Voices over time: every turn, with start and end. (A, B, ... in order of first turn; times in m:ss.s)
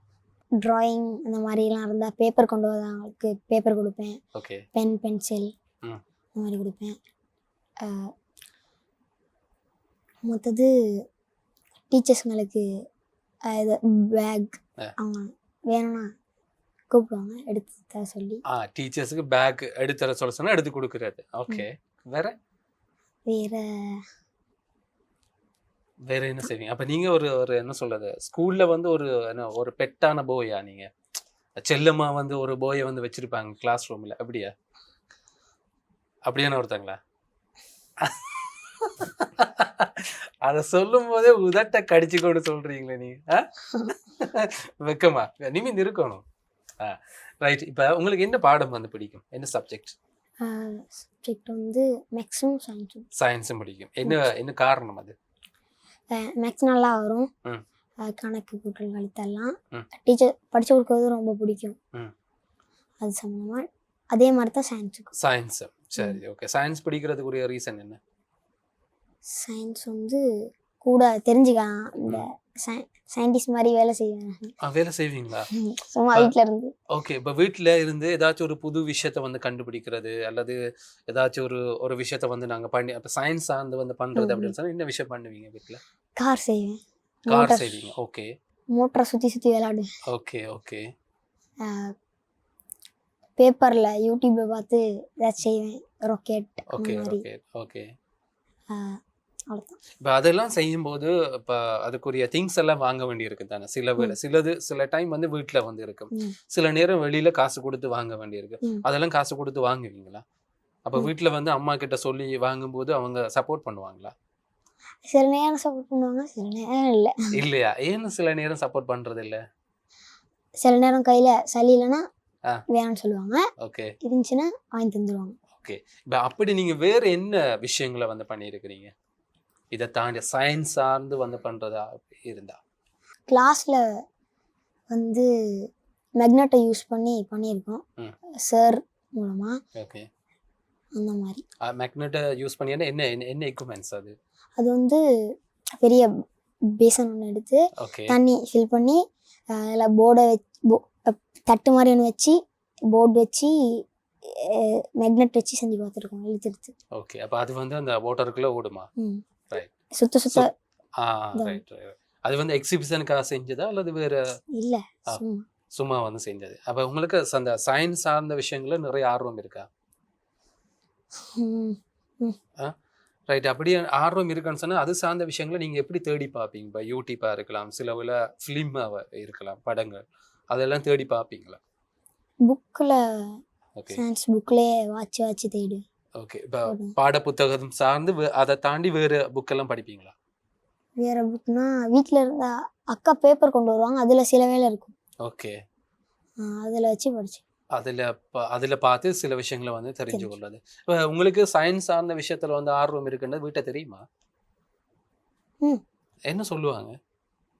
0:00.6-0:04.2 A
0:04.4-0:04.6 B
0:04.8-0:05.5 A
0:06.4-0:07.0 A
0:07.8-0:08.1 A
0:10.3-0:10.7 A
0:11.9-0:12.7 A
0:13.5-0:16.1 A
0:16.9-0:18.4 A
0:18.5-0:22.4 B
0:23.3-0:24.0 A
0:26.1-0:30.9 B
0:31.6-0:34.5 B
0:36.3-0:37.0 B
0:38.0-0:46.2 B
0:46.8-0:50.0 B
0:50.4-0:53.1 A
0:53.2-0:55.2 B
0:56.1-0:57.3 A
0:58.0-1:01.8 A
1:03.0-1:05.1 A
1:05.2-1:08.0 B
1:09.3-1:10.3 A
1:10.8-1:14.5 A
1:14.6-1:15.5 B
1:15.5-1:16.7 A
1:16.9-1:20.6 B
1:21.1-1:25.8 B
1:24.2-1:24.5 A
1:26.2-1:27.8 A
1:27.3-1:28.3 B
1:28.7-1:29.9 A
1:30.1-1:30.9 B
1:31.6-1:31.9 A
1:33.4-1:37.2 A
1:36.7-1:37.9 B
1:38.7-1:39.0 A
1:39.5-1:39.8 A
1:40.0-1:50.2 B
1:50.9-1:54.1 B
1:55.0-1:57.3 A
1:57.3-1:59.4 B
2:00.6-2:02.1 A
2:02.7-2:03.5 A
2:03.6-2:03.9 B
2:04.0-2:05.4 A
2:05.6-2:08.9 B
2:09.7-2:12.6 B
2:13.3-2:13.8 A
2:14.9-2:15.7 A
2:16.2-2:17.8 A
2:18.4-2:19.6 A
2:19.8-2:20.1 B
2:21.0-2:21.4 A
2:21.6-2:24.2 B
2:24.6-2:25.0 A
2:25.8-2:26.1 A
2:26.7-2:29.0 A
2:27.8-2:28.2 B
2:29.5-2:32.4 A
2:32.9-2:33.6 A
2:34.2-2:36.7 A
2:37.0-2:38.9 B
2:39.0-2:39.2 A
2:39.9-2:40.5 A
2:41.0-2:44.2 B
2:41.4-2:41.6 A
2:44.6-2:45.5 A
2:45.8-2:49.7 B
2:51.2-2:52.4 A
2:53.3-3:01.6 B
3:02.4-3:03.4 A
3:03.8-3:04.0 B
3:03.9-3:05.8 A
3:06.2-3:10.1 B
3:06.7-3:06.9 A
3:11.0-3:14.9 A
3:15.2-3:15.6 B
3:16.4-3:17.4 A
3:17.8-3:24.0 B
3:26.3-3:27.0 B